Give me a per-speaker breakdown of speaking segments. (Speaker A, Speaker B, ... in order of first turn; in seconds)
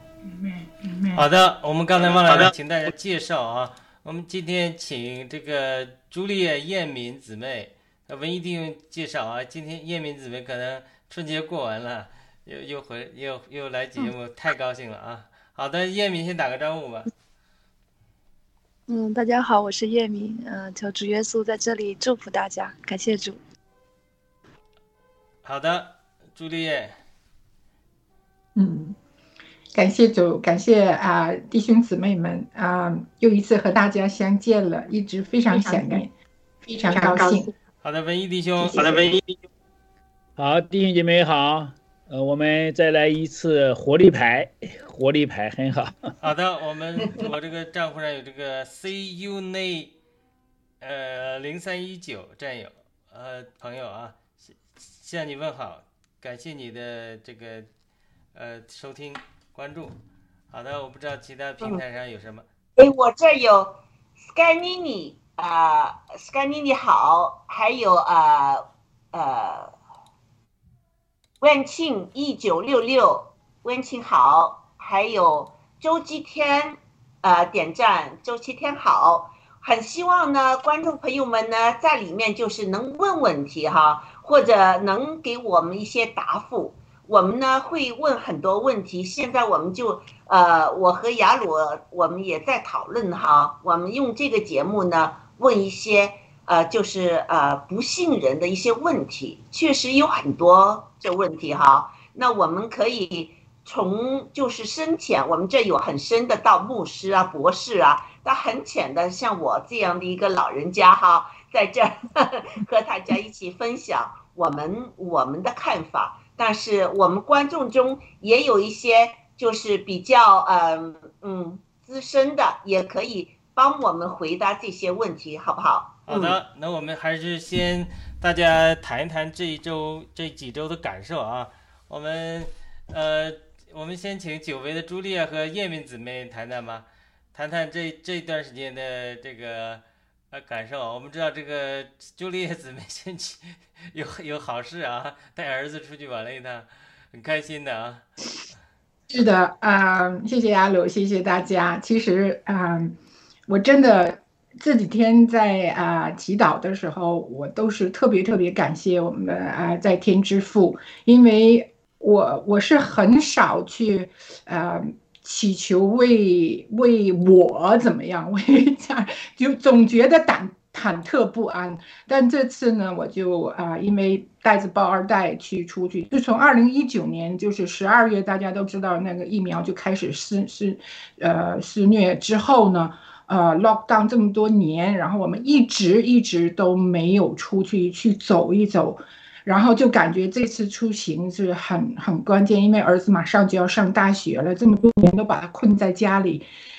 Speaker A: 0.3-1.2, 28.6-28.9, 29.7-36.1, 36.7-37.5, 149.1-152.9, 153.5-196.4
Speaker B: 1.1-17.1, 25.4-26.9, 37.8-39.4, 46.2-49.9, 50.8-57.7, 58.4-60.0, 60.5-62.4, 126.1-148.1
Speaker C: 18.9-23.4
Speaker D: 40.4-46.1
Speaker E: 62.8-69.7, 71.4-126.3